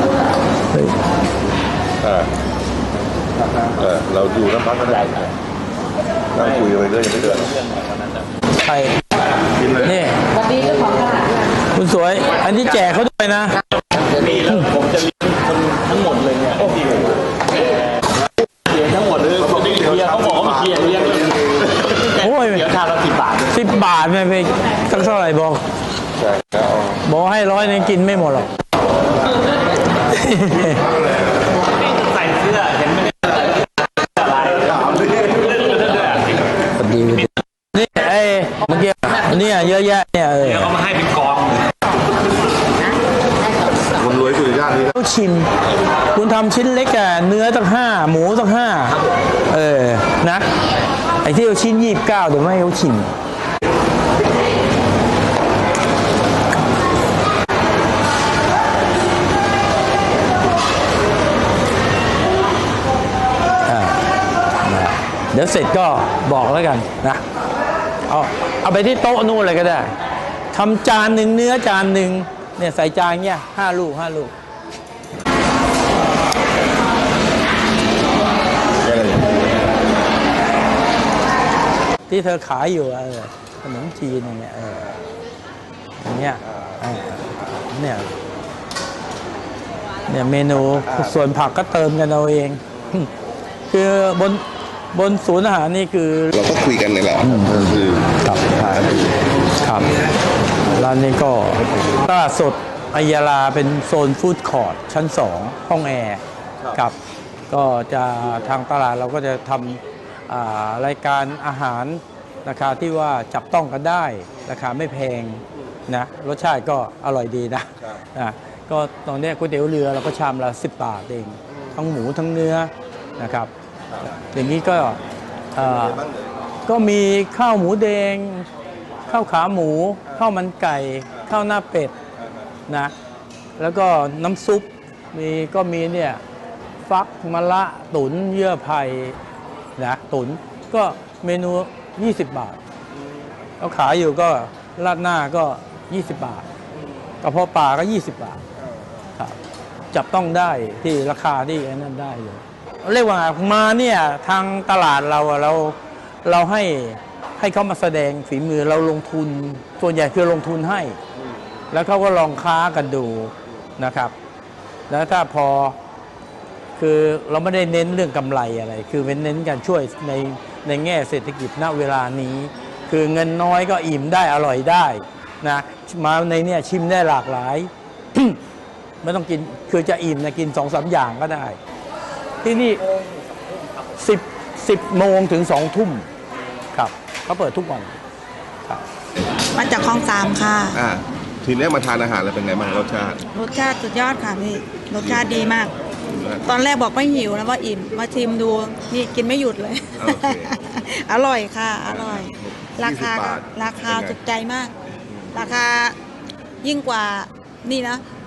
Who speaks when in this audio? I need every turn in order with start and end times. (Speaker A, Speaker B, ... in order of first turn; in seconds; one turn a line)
Speaker A: 0.7-1.0
Speaker B: 2.0-2.3
Speaker B: 3.8-5.3
Speaker B: 6.3-7.5
Speaker C: 7.3-8.2
Speaker A: 8.5-9.0
Speaker A: 9.7-10.2
Speaker C: 10.5-11.3
Speaker A: 11.7-13.6
Speaker C: 13.9-17.9
Speaker C: 18.7-23.4
Speaker A: 22.1-22.7
Speaker A: 23.4-25.6
Speaker A: 26.9-28.5
Speaker A: 29.9-30.9
Speaker C: 31.8-36.5
Speaker A: 36.7-40.8
Speaker C: 40.7-41.6
Speaker D: 44.0-44.8
Speaker A: 44.8-45.5
Speaker A: 46.1-50.5
Speaker A: 51.2-53.1
Speaker A: 63.7-64.0
Speaker A: 64.6-67.2
Speaker A: 68.1-70.0
Speaker A: 70.5-74.3
Speaker A: 82.1-84.9
Speaker A: 86.0-88.2
Speaker A: 90.1-93.1
Speaker A: 93.7-96.3
Speaker D: 96.3-98.1
Speaker A: 97.2-97.7
Speaker A: 98.2-98.9
Speaker A: 99.6-99.9
Speaker A: 100.7-107.0
Speaker A: 107.5-123.5
Speaker A: 124.1-125.0
Speaker A: 125.5-126.1
Speaker A: 126.7-128.5
Speaker A: 129.1-131.9
Speaker A: 132.7-132.9
Speaker A: 133.6-136.2
Speaker A: 136.8-139.2
Speaker A: 139.8-142.6
Speaker A: 143.6-146.5
Speaker A: 147.2-148.4
Speaker A: 149.9-161.0
Speaker A: 161.7-164.1
Speaker A: 164.9-165.8
Speaker A: 166.8-178.4
Speaker A: 179.0-181.6
Speaker A: 182.4-182.9
Speaker A: 183.8-186.1
Speaker A: 186.7-187.9
Speaker E: 189.5-190.8
Speaker D: 190.8-193.2
Speaker E: 193.3-195.7
Speaker D: 196.0-196.5
Speaker E: 196.5-204.7
Speaker D: 200.0-200.6
Speaker D: 201.9-204.2
Speaker E: 205.3-206.0
Speaker E: 206.6-208.0